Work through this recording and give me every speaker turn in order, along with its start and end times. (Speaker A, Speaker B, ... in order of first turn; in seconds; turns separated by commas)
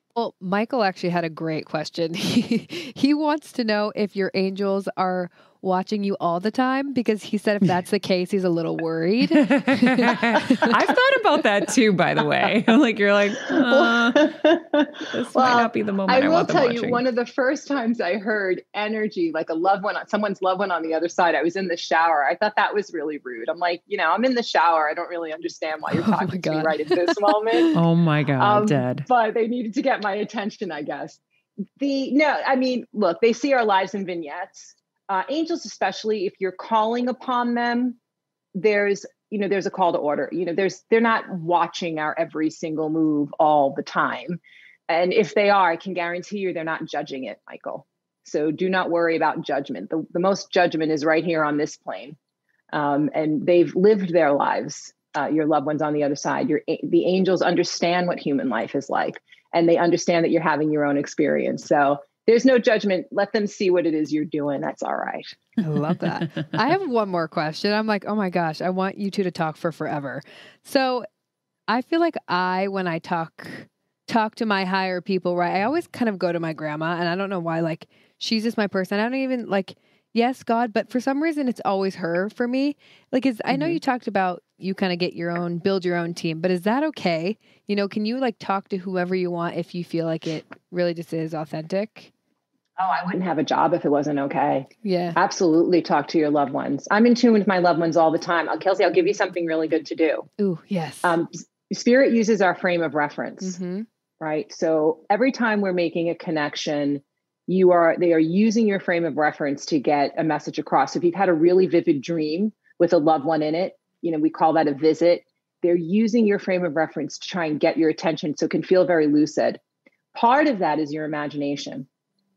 Speaker A: 0.2-10.8, Speaker B: 9.2-14.3, Speaker C: 13.5-27.7, Speaker B: 15.1-17.0, Speaker A: 25.9-27.8, Speaker B: 27.7-29.1, Speaker C: 28.4-31.2, Speaker C: 31.8-38.0, Speaker C: 38.5-52.2, Speaker C: 52.7-65.4, Speaker A: 65.6-71.1, Speaker A: 71.7-92.1, Speaker C: 83.5-83.8, Speaker C: 92.8-100.3, Speaker A: 94.8-95.2, Speaker A: 100.4-101.2, Speaker C: 101.0-103.6, Speaker A: 103.4-103.9, Speaker C: 104.2-119.6, Speaker C: 120.1-121.9